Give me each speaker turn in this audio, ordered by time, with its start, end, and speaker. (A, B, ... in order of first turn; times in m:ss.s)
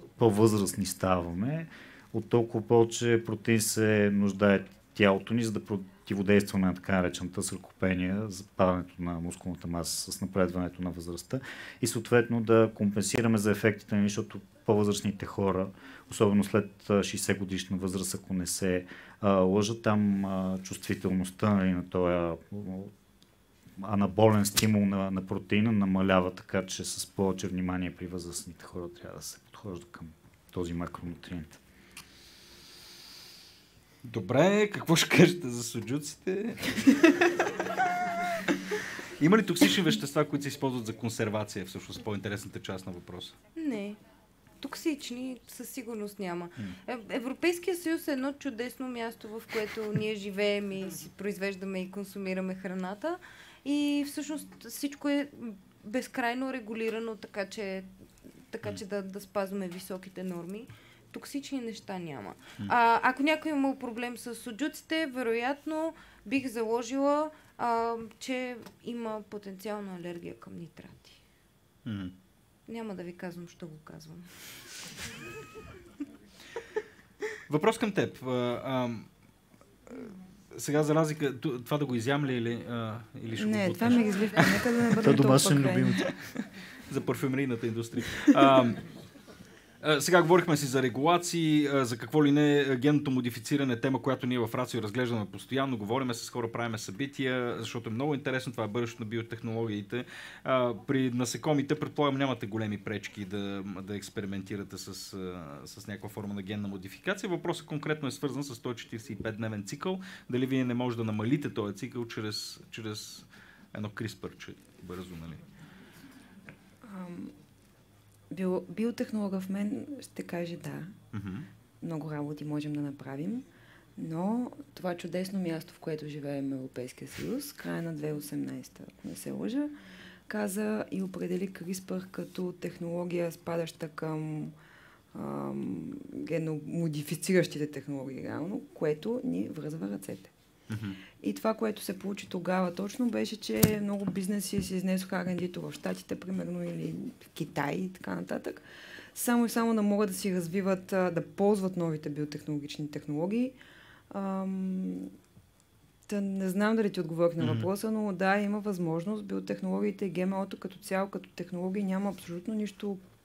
0:00.2-0:22.9 A
0:23.8-0:31.6 A
0:34.0-0:37.2 B
0:39.2-0:43.3 B
0:43.6-0:44.0 C
0:44.6-0:57.9 C
0:58.5-1:11.2 C
1:11.8-1:12.1 B
1:12.7-1:14.3 C
1:17.5-1:19.1 B
1:19.9-1:24.6 B
1:23.4-1:26.1 D
1:25.0-1:26.1 A
1:26.9-1:28.8 B
1:29.8-1:55.4 B
1:56.8-1:57.3 D
1:58.3-2:00.9 D
2:01.1-2:01.5 B
2:01.8-2:03.4 D
2:04.0-2:09.7 D
2:10.3-2:14.5 D
2:15.1-2:20.3 D
2:20.7-2:21.0 B
2:21.2-2:28.6 D
2:29.1-2:33.6 D
2:34.1-2:35.1 D
2:36.1-2:43.0 D
2:37.4-2:37.7 B